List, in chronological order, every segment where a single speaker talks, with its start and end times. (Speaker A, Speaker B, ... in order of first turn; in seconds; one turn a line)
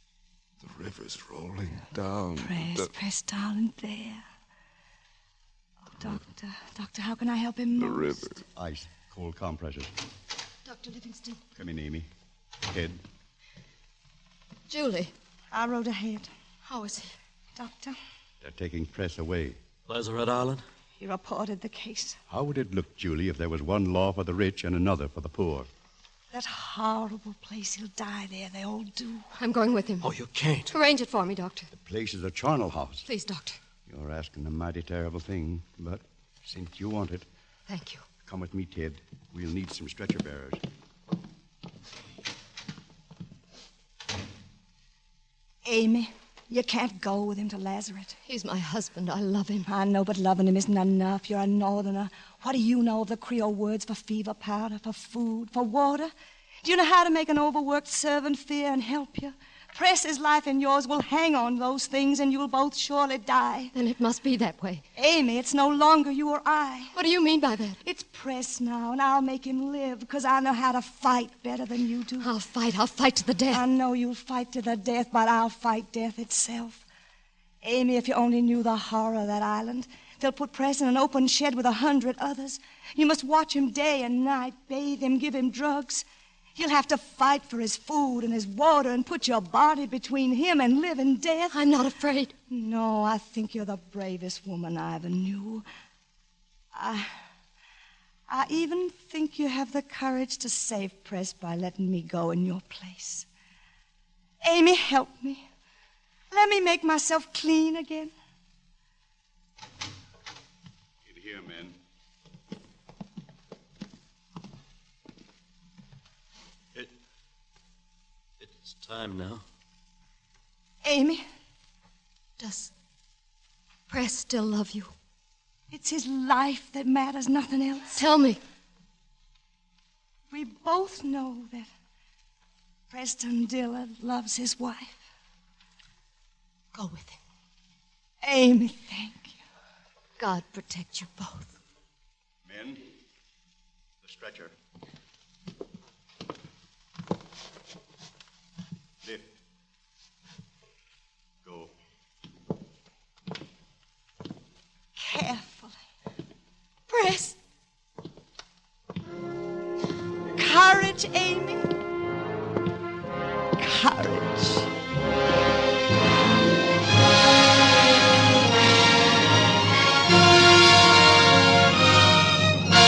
Speaker A: 0.6-2.9
Speaker B: 2.4-4.2
Speaker B: 6.0-8.3
Speaker A: 7.8-8.4
Speaker C: 8.5-9.9
Speaker D: 10.7-11.4
Speaker C: 11.5-12.1
Speaker C: 12.6-13.0
Speaker D: 14.7-15.1
Speaker B: 15.5-16.3
Speaker D: 16.6-17.1
Speaker B: 17.6-18.0
Speaker C: 18.4-19.6
Speaker E: 19.9-20.6
Speaker B: 21.0-22.2
Speaker C: 22.3-25.7
Speaker B: 26.3-29.3
Speaker D: 29.4-30.1
Speaker E: 30.0-30.7
Speaker D: 30.7-31.7
Speaker C: 31.7-33.0
Speaker D: 33.0-33.6
Speaker C: 33.9-37.2
Speaker D: 37.7-38.1
Speaker C: 38.2-40.6
Speaker B: 45.6-48.1
Speaker D: 48.2-49.7
Speaker B: 49.6-56.1
Speaker B: 56.6-63.7
Speaker D: 63.7-64.8
Speaker B: 65.0-66.9
Speaker D: 66.9-67.8
Speaker B: 67.8-72.3
Speaker D: 72.2-73.6
Speaker B: 73.5-76.8
Speaker B: 77.6-86.0
Speaker B: 86.5-91.6
Speaker D: 91.5-92.3
Speaker B: 92.5-95.6
Speaker B: 96.7-97.1
Speaker B: 98.3-103.3
Speaker B: 104.4-105.4
Speaker B: 106.3-108.1
Speaker C: 111.0-111.7
Speaker E: 118.4-119.4
Speaker B: 120.8-121.2
Speaker D: 122.4-122.7
Speaker D: 123.9-124.9
Speaker B: 125.7-128.0
Speaker D: 127.9-128.4
Speaker B: 130.3-131.7
Speaker B: 132.9-135.0
Speaker D: 136.7-137.2
Speaker B: 138.2-139.4
Speaker D: 140.2-141.5
Speaker C: 142.4-142.8
Speaker C: 144.0-144.5
Speaker C: 149.0-149.3
Speaker C: 151.4-151.7
Speaker B: 154.9-155.8
Speaker D: 156.9-157.3
Speaker B: 160.3-161.7
Speaker B: 163.6-164.7